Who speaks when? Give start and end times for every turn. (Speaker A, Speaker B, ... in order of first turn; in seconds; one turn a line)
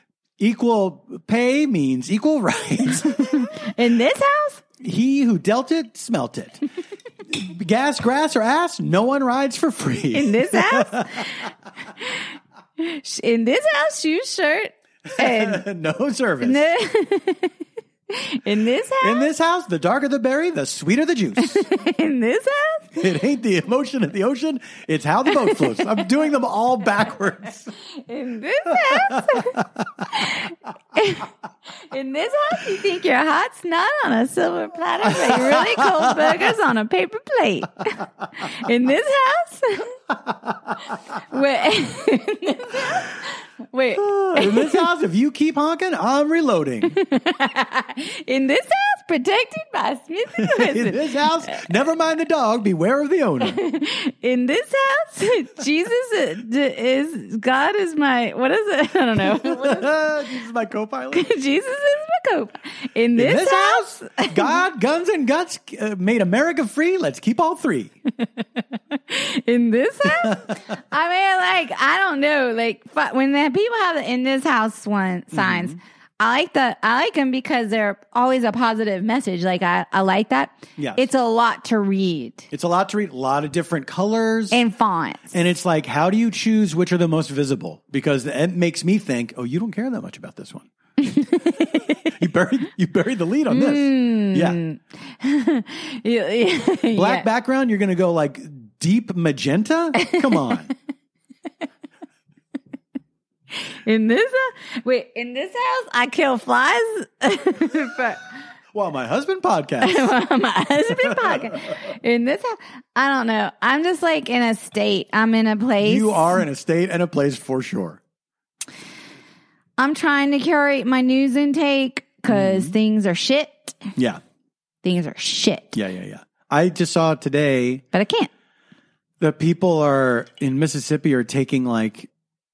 Speaker A: 0.4-3.5
Speaker B: 3.0-4.6
Speaker A: 4.8-6.6
Speaker A: 7.3-11.5
Speaker B: 10.1-15.6
Speaker A: 15.1-16.7
Speaker B: 16.4-17.6
Speaker B: 18.1-19.3
Speaker A: 19.0-21.7
Speaker B: 21.4-23.0
Speaker A: 23.0-27.7
Speaker B: 25.3-26.0
Speaker B: 27.8-31.3
Speaker A: 28.7-30.1
Speaker B: 31.8-40.0
Speaker A: 35.0-36.5
Speaker A: 40.2-40.8
Speaker B: 41.1-44.9
Speaker A: 44.0-47.0
Speaker B: 46.8-51.6
Speaker A: 50.3-53.6
Speaker B: 53.4-60.0
Speaker A: 59.2-61.3
Speaker B: 61.1-64.6
Speaker A: 63.1-67.9
Speaker B: 68.8-82.5
Speaker A: 70.1-70.5
Speaker A: 75.3-75.8
Speaker A: 80.8-81.1
Speaker A: 82.5-84.6
Speaker B: 84.5-85.3
Speaker A: 85.3-90.7
Speaker B: 91.0-92.1
Speaker A: 91.9-94.6
Speaker B: 93.5-97.3
Speaker A: 96.9-100.7
Speaker B: 100.0-100.5
Speaker B: 103.5-108.2
Speaker A: 108.7-110.1
Speaker B: 109.8-116.4
Speaker A: 110.9-111.6
Speaker A: 115.8-118.0
Speaker B: 119.8-123.9
Speaker A: 122.3-122.7
Speaker A: 124.0-124.2
Speaker B: 124.8-125.8
Speaker A: 125.7-127.8
Speaker B: 127.9-128.3
Speaker A: 129.2-132.1